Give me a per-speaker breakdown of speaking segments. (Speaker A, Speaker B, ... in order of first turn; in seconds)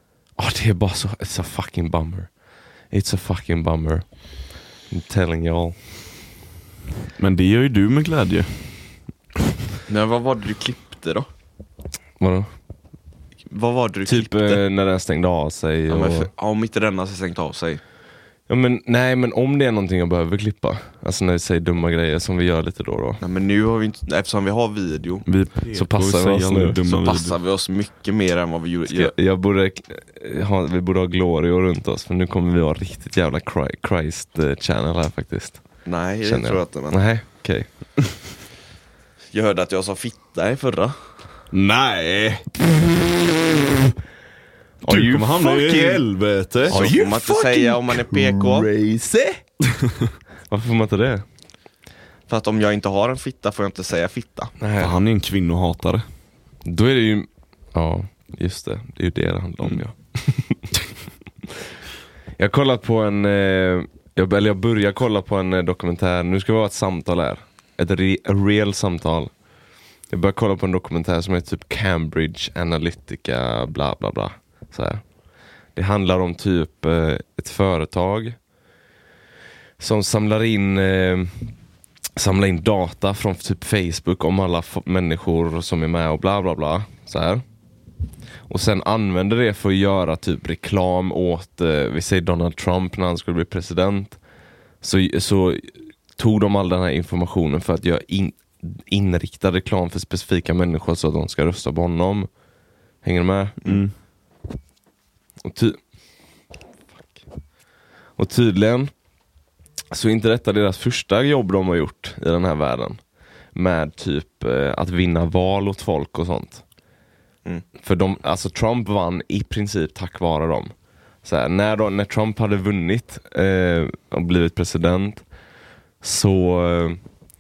Speaker A: 0.4-5.8, 12.2-12.5, 14.1-16.3, 18.5-23.2, 25.7-26.8, 28.9-37.7, 44.9-46.1, 46.6-49.4, 50.5-51.2, 54.6-54.9, 56.6-60.6, 62.4-78.5, 79.8-81.7, 82.2-87.6, 88.5-94.2, 94.8-102.3, 103.0-103.6, 105.4-105.8, 107.0-107.2, 108.2-109.0, 109.9-116.7, 117.8-125.3, 126.0-127.0
Speaker B: 7.2-9.1, 25.3-27.4, 41.5-42.5, 44.8-46.9, 49.8-50.1, 54.8-56.0, 103.6-104.0
Speaker C: 9.9-11.3, 13.5-14.6, 15.9-17.8, 23.2-25.3, 26.9-29.2, 35.9-37.0, 39.3-41.0, 46.7-48.7, 52.3-54.5